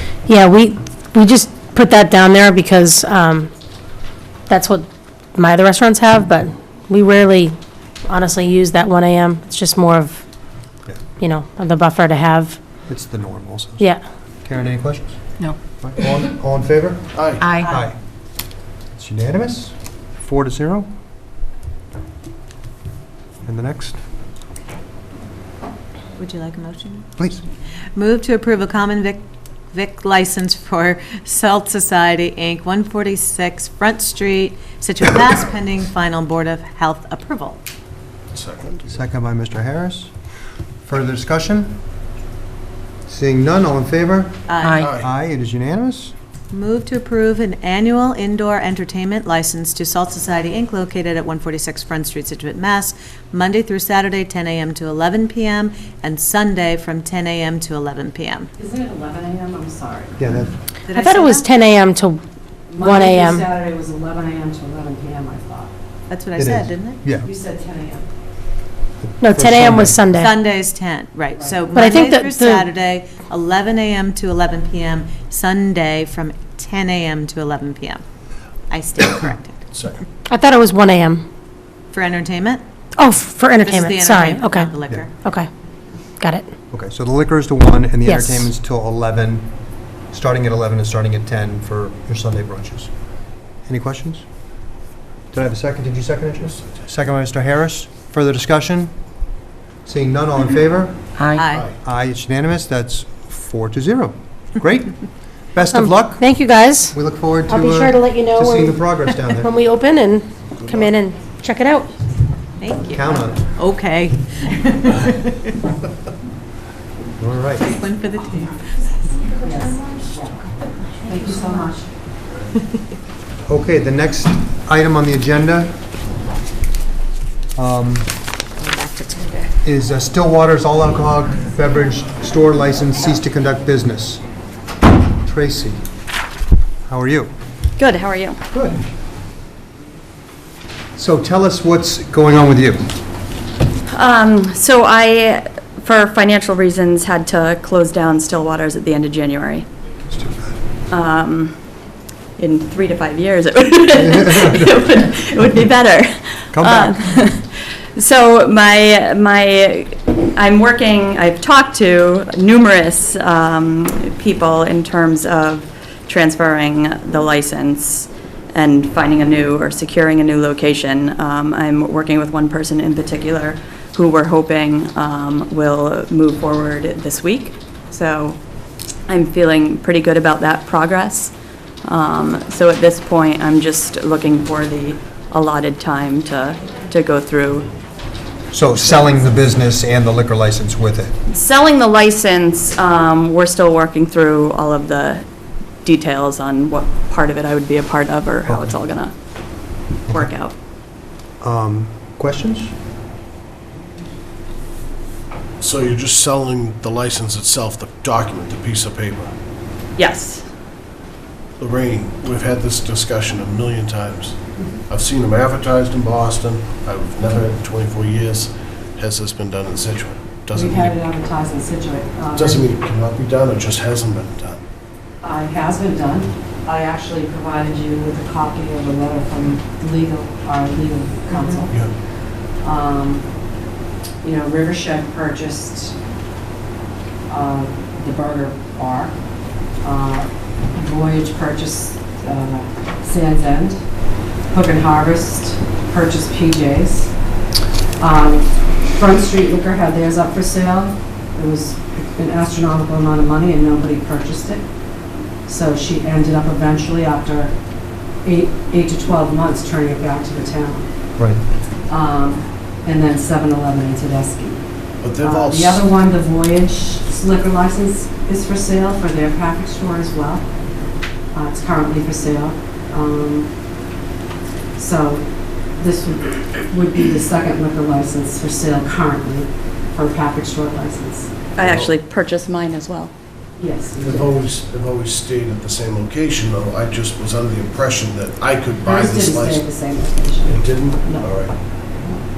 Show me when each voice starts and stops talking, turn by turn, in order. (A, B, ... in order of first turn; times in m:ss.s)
0:00.3-0:03.5 A
0:04.5-0:07.6 A
0:08.1-0:10.2 A
0:11.2-0:12.6 A
0:12.9-0:13.9 B
0:14.4-0:15.1 B
0:15.7-0:18.0 B
0:17.1-0:17.6 C
0:18.9-0:20.9 B
0:23.4-0:24.0 B
0:26.2-0:27.1 D
0:27.2-0:27.4 B
0:28.0-0:37.6 D
0:38.3-0:39.0 C
0:38.9-0:40.1 B
0:40.8-0:41.8 B
0:43.1-0:46.1 B
0:44.5-0:44.9 D
0:44.8-0:45.1 C
0:46.5-0:58.5 D
0:58.6-1:00.5 E
1:00.2-1:00.5 B
1:00.9-1:01.5 D
1:00.9-1:02.2 A
1:02.7-1:05.7 E
1:02.8-1:03.5 A
1:06.1-1:07.0 D
1:06.4-1:07.3 B
1:07.2-1:08.1 E
1:09.0-1:10.0 B
1:09.2-1:10.4 A
1:10.1-1:18.0 D
1:11.3-1:11.7 E
1:11.7-1:12.7 A
1:18.7-1:19.7 D
1:20.3-1:21.2 A
1:21.9-1:22.6 D
1:23.0-1:25.5 A
1:23.6-1:25.2 D
1:26.2-1:26.5 A
1:26.7-1:29.5 B
1:28.0-1:28.5 A
1:30.1-1:32.9 B
1:33.7-1:34.3 B
1:35.3-1:38.9 B
1:39.8-1:41.0 B
1:41.3-1:41.7 D
1:41.5-1:41.8 C
1:41.8-1:45.0 B
1:45.5-1:46.3 B
1:45.7-1:46.9 A
1:46.9-1:49.5 B
1:47.5-1:51.9 A
1:50.6-1:50.9 C
1:52.6-1:55.5 D
1:52.9-1:53.4 B
1:57.2-1:57.8 B
1:57.7-1:58.8 D
1:59.4-2:00.4 E
2:01.0-2:01.9 E
2:03.5-2:05.8 B
2:07.6-2:08.1 B
2:09.6-2:14.2 B
2:15.2-2:15.8 B
2:16.9-2:17.3 B
2:17.8-2:18.4 F
2:18.5-2:18.9 B
2:21.0-2:22.8 B
2:23.9-2:29.7 F
2:30.1-2:30.6 B
2:30.9-2:31.6 F
2:32.4-2:58.4 F
2:34.1-2:34.5 B
2:36.5-2:37.0 B
2:59.1-3:07.7 F
3:08.5-3:11.1 B
3:11.3-3:15.3 F
3:15.8-3:19.1 F
3:18.5-3:18.8 B
3:20.1-3:20.5 F
3:21.4-3:22.7 B
3:25.6-3:29.3 C
3:30.0-3:30.5 F
3:31.6-3:41.0 C
3:40.5-3:42.7 E
3:42.4-3:44.6 C
3:45.2-3:51.8 E
3:52.6-3:53.2 E
3:54.2-3:56.0 E
3:57.3-3:59.2 E
3:59.8-4:03.8 E
4:04.5-4:07.1 E
4:08.0-4:14.6 E
4:15.5-4:17.5 E
4:18.2-4:20.9 E
4:21.9-4:24.6 E
4:25.0-4:25.9 C
4:25.2-4:30.5 E
4:31.3-4:33.5 E
4:34.8-4:35.2 E
4:35.8-4:41.3 E
4:41.6-4:43.1 F
4:41.6-4:41.9 C
4:43.6-4:44.4 E
4:44.0-4:49.7 C
4:48.8-4:51.4 E
4:50.5-4:51.5 C